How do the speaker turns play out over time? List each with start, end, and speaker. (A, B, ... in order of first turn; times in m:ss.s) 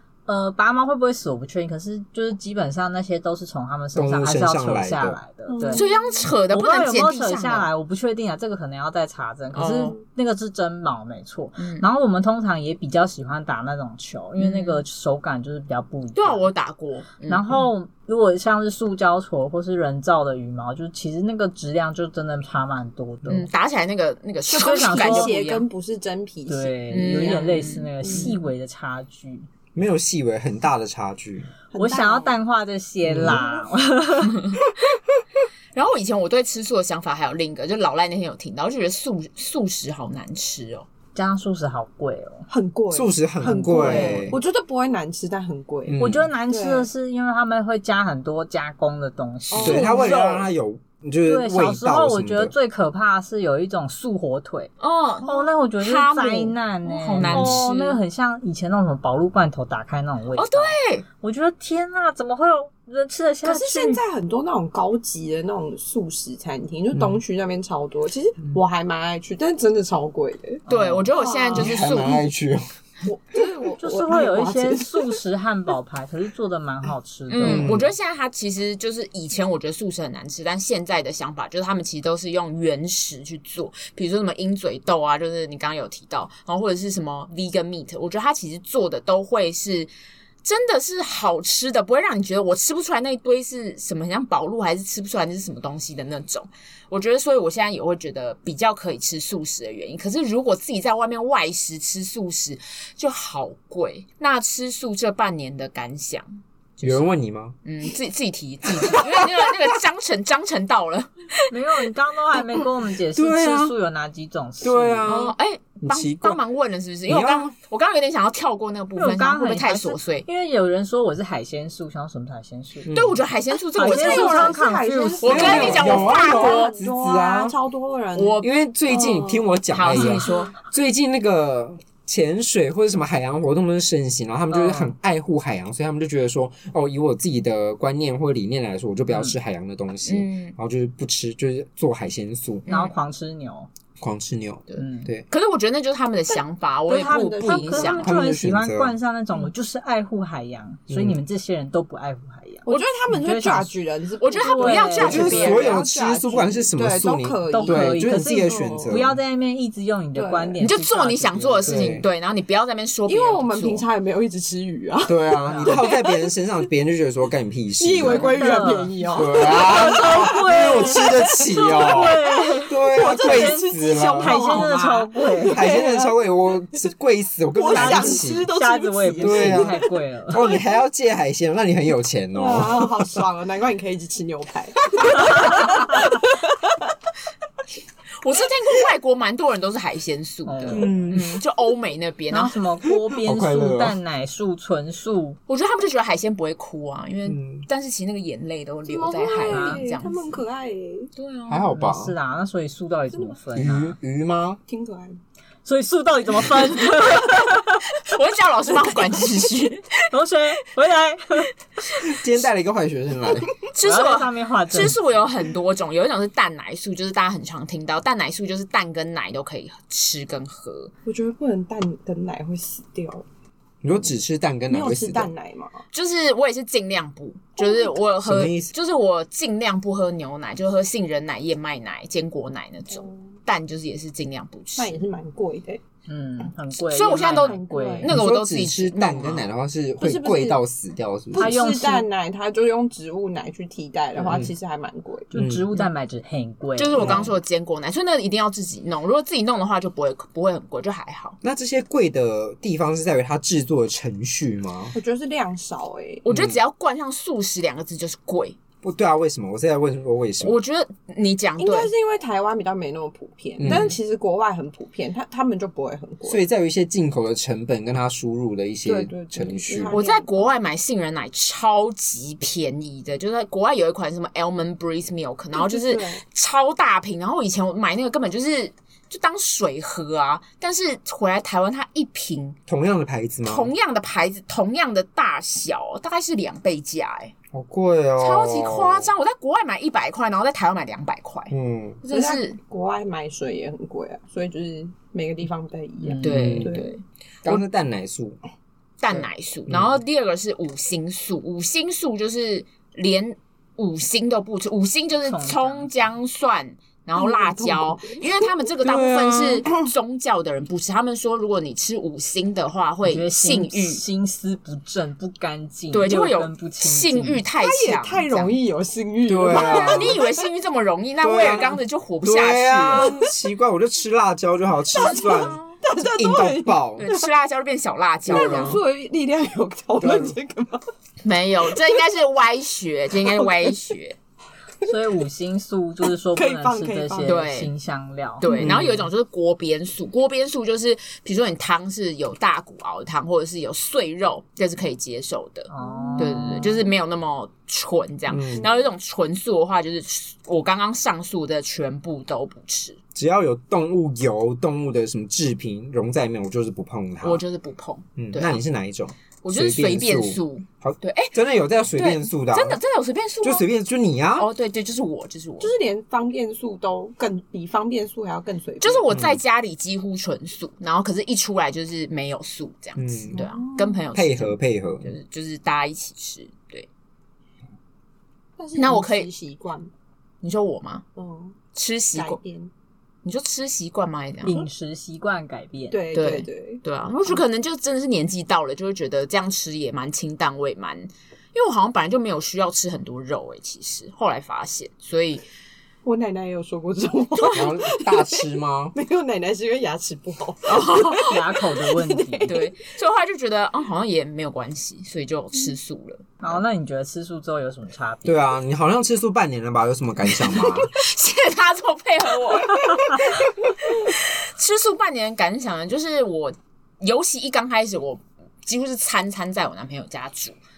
0:00.3-0:05.9 A
0:03.9-0:05.2 B
0:05.5-0:06.3 C
0:05.6-0:07.7 D
0:06.5-0:16.5 A
0:09.5-0:10.0 D
0:11.6-0:11.8 D
0:14.4-0:14.8 D
0:16.1-0:17.6 D
0:17.3-0:23.5 A
0:23.2-0:25.7 D
0:24.5-0:28.4 C
0:24.5-0:25.3 A
0:26.5-0:29.5 A
0:26.9-0:28.3 D
0:29.7-0:31.5 B
0:31.7-0:32.4 C
0:31.7-0:34.5 A
0:33.0-0:33.4 B
0:34.3-0:34.6 D
0:35.7-0:40.9 D
0:41.1-0:42.5 A
0:42.5-0:46.9 C
0:42.9-0:44.4 B
0:43.7-0:44.3 A
0:45.8-0:46.3 B
0:46.0-0:50.1 A
0:49.5-0:50.3 C
0:49.6-0:52.5 B
0:49.9-0:50.4 D
0:51.2-1:04.0 A
0:54.8-0:58.0 D
0:57.2-0:57.5 B
1:00.3-1:01.0 D
1:03.4-1:11.9 C
1:06.9-1:07.2 B
1:10.7-1:11.1 A
1:10.7-1:12.2 D
1:11.5-1:12.6 B
1:13.0-1:15.2 C
1:13.8-1:17.7 A
1:17.3-1:29.9 D
1:17.4-1:17.9 B
1:30.4-1:47.1 D
1:46.8-1:47.6 B
1:47.6-1:51.2 D
1:51.5-1:55.1 A
1:53.1-1:53.7 B
1:54.6-1:56.4 B
1:55.0-2:00.2 D
1:57.1-1:57.5 B
1:59.0-2:02.9 A
2:02.8-2:03.2 B
2:02.9-2:04.7 D
2:03.7-2:05.8 A
2:03.7-2:10.3 C
2:05.2-2:06.7 D
2:05.2-2:07.6 B
2:08.1-2:08.5 D
2:08.4-2:22.7 B
2:09.7-2:10.5 D
2:14.5-2:14.9 A
2:19.1-2:19.4 A
2:20.0-2:20.5 D
2:22.7-2:22.9 D
2:22.7-2:23.7 A
2:24.0-2:25.2 B
2:24.7-2:28.1 D
2:24.8-2:25.1 A
2:26.9-2:33.8 A
2:27.0-2:28.0 C
2:28.0-2:29.0 B
2:30.9-2:31.2 B
2:32.6-2:39.0 C
2:34.2-2:35.8 D
2:34.4-2:35.4 A
2:35.0-2:39.2 B
2:37.5-2:42.0 A
2:40.1-2:40.6 C
2:40.6-2:43.9 D
2:41.6-2:42.0 B
2:43.1-2:46.3 C
2:45.0-2:48.4 B
2:45.5-2:45.8 A
2:47.8-2:50.4 C
2:48.0-2:55.7 A
2:49.1-2:54.7 B
2:50.9-2:56.2 C
2:55.5-2:58.5 B
2:57.5-2:59.8 C
2:57.7-3:00.4 A
2:59.2-2:59.7 B
3:00.3-3:02.9 B
3:02.3-3:06.9 C
3:08.2-3:12.5 D
3:10.4-3:11.0 A
3:10.7-3:11.3 B
3:12.3-3:15.4 A
3:13.2-3:14.0 B
3:15.5-3:20.2 D
3:17.2-3:17.6 B
3:18.8-3:21.1 C
3:19.5-3:19.9 A
3:21.2-3:21.6 D
3:21.5-3:22.1 B
3:21.7-3:23.9 A
3:23.1-3:23.4 C
3:23.5-3:24.6 B
3:24.7-3:25.2 C
3:25.6-3:27.8 A
3:26.9-3:27.3 D
3:28.0-3:30.0 D
3:30.1-3:31.5 A
3:32.0-3:33.6 B
3:33.7-3:40.9 D
3:33.8-3:35.0 A
3:41.0-3:43.2 C
3:43.8-3:45.3 B
3:44.7-3:45.8 C
3:45.9-3:55.0 D
3:47.6-3:48.0 C
3:48.2-3:48.7 B
3:52.9-3:53.3 C
3:54.8-3:55.8 C
3:56.1-3:58.1 A
3:56.8-3:59.5 D
3:57.2-3:58.1 C
3:58.1-4:01.6 B
4:00.0-4:00.6 C
4:01.3-4:05.3 C
4:01.4-4:02.1 A
4:04.2-4:04.5 B
4:05.3-4:07.2 A
4:05.3-4:05.6 B
4:06.8-4:11.4 D
4:07.0-4:07.3 B
4:11.4-4:15.0 B
4:14.9-4:16.2 C
4:16.2-4:18.6 D
4:16.3-4:16.6 B
4:18.8-4:20.6 B
4:20.4-4:21.9 D
4:21.6-4:26.4 C
4:23.6-4:23.9 B
4:23.6-4:24.0 D
4:26.2-4:30.0 B
4:28.8-4:30.5 C
4:29.9-4:42.6 D
4:35.5-4:36.2 C
4:42.7-4:43.7 B
4:43.4-4:47.3 D
4:47.5-4:49.1 B
4:48.2-4:52.6 D
4:51.5-4:52.0 B
4:52.1-4:56.9 C
4:56.0-4:56.6 A
4:56.2-4:57.6 D
4:56.2-4:56.8 B
4:57.4-4:58.4 B
4:59.0-5:14.0 D
4:59.7-5:00.0 B
5:05.2-5:05.9 A
5:07.2-5:08.3 C
5:08.8-5:09.6 B
5:13.0-5:17.4 A
5:15.9-5:18.6 D
5:17.6-5:20.5 C
5:19.2-5:20.2 B
5:19.5-5:23.2 D
5:21.2-5:27.0 B
5:22.9-5:23.3 C
5:25.0-5:27.3 C
5:25.0-5:25.8 D
5:27.0-5:28.8 D
5:28.2-5:28.8 B
5:28.3-5:30.8 C
5:30.0-5:30.4 B
5:31.2-5:34.2 D
5:33.1-5:33.8 C
5:34.8-5:38.5 A
5:36.3-5:37.4 C
5:37.2-5:37.7 D
5:38.4-5:53.0 D
5:38.4-5:38.8 C
5:38.6-5:39.1 B
5:45.7-5:46.8 A
5:45.8-5:46.7 C
5:48.3-5:48.7 B
5:53.1-5:57.4 B
5:57.2-5:58.6 D
5:58.2-6:02.8 B
5:59.4-6:01.3 D
6:01.9-6:03.6 D
6:03.4-6:04.5 B
6:04.4-6:05.8 D
6:05.6-6:09.0 C
6:08.8-6:16.9 D
6:09.1-6:09.4 B
6:13.0-6:13.4 B
6:13.3-6:14.1 C
6:14.1-6:15.1 B
6:18.6-6:19.9 C
6:18.8-6:19.3 D
6:20.4-6:21.0 D
6:21.2-6:21.6 C
6:21.7-6:22.4 D
6:22.1-6:22.7 C
6:23.2-6:24.6 D
6:24.4-6:26.0 A
6:25.9-6:27.4 C
6:26.1-6:35.4 D
6:36.0-6:42.7 C
6:37.5-6:38.9 B
6:40.7-6:41.2 D
6:41.3-6:42.5 A
6:42.5-6:46.6 D
6:46.4-6:48.4 A
6:48.2-6:50.9 B
6:50.7-7:00.6 D